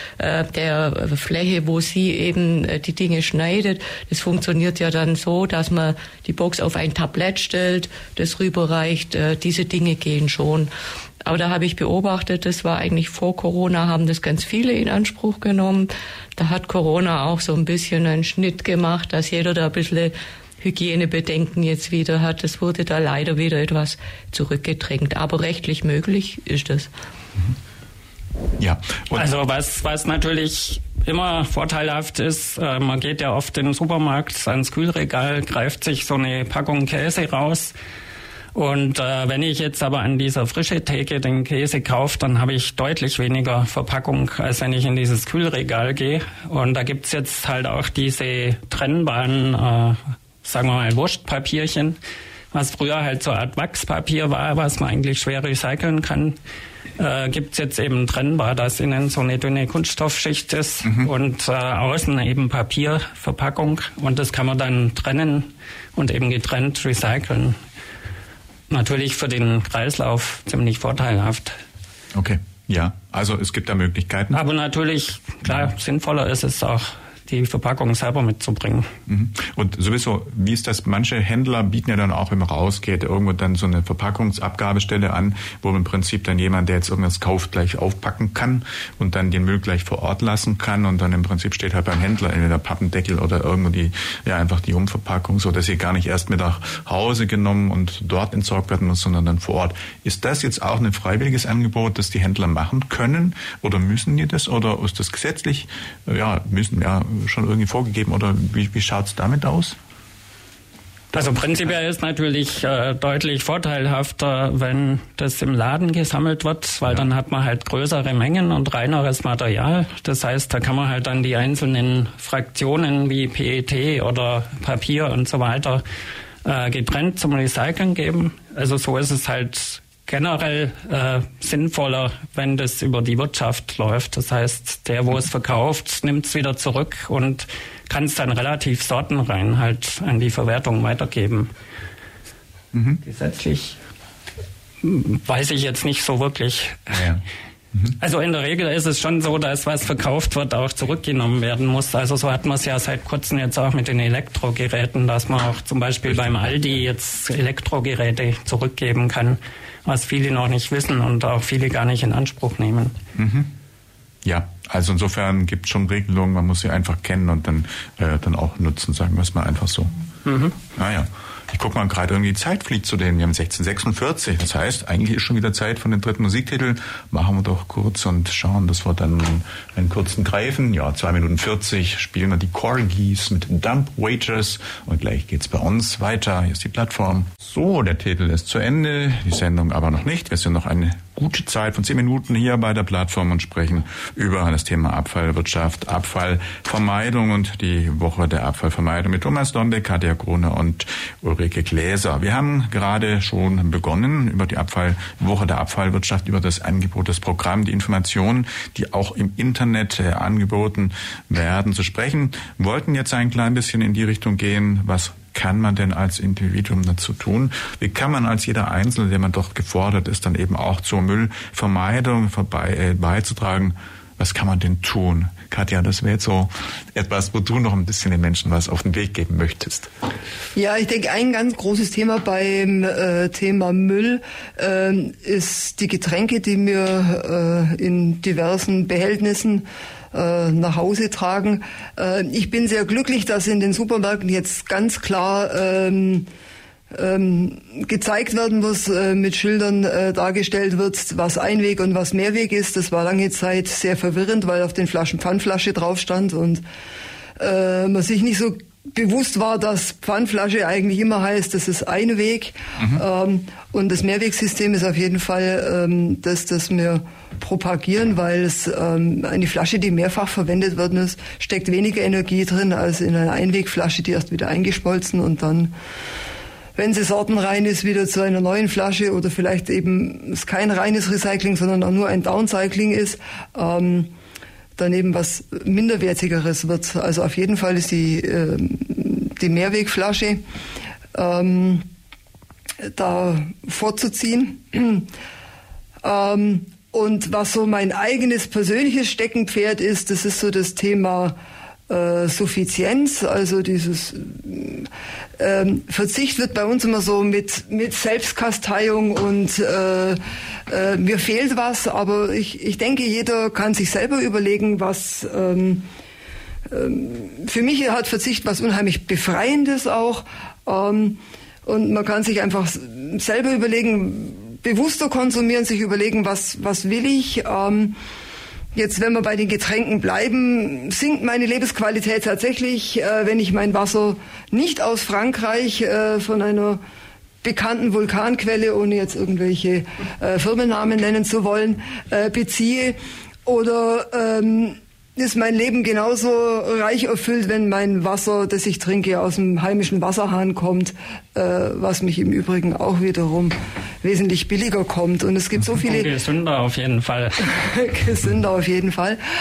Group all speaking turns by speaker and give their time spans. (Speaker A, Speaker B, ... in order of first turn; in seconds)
Speaker A: 0.2-10.7, 11.2-26.9
Speaker B: 28.6-29.3, 60.8-61.1, 72.1-74.4, 79.1-109.8, 142.7-143.0, 146.9-147.2, 156.1-156.5, 163.2-163.5, 164.2-169.9, 170.7-229.9
Speaker C: 29.1-37.7, 38.5-52.0, 52.5-56.4, 57.0-67.6, 68.7-71.5, 74.3-78.9, 111.1-125.8, 126.4-141.5, 143.0-143.8, 144.8-147.1, 148.0-162.9, 170.2-170.5, 355.8-357.5
Speaker D: 230.5-246.3, 246.9-256.6, 257.4-275.7, 276.8-284.1, 284.8-290.4, 291.1-291.8, 292.9-295.1, 296.0-301.3, 301.9-315.9, 316.7-328.0, 328.7-336.8, 337.4-356.1, 357.4-359.2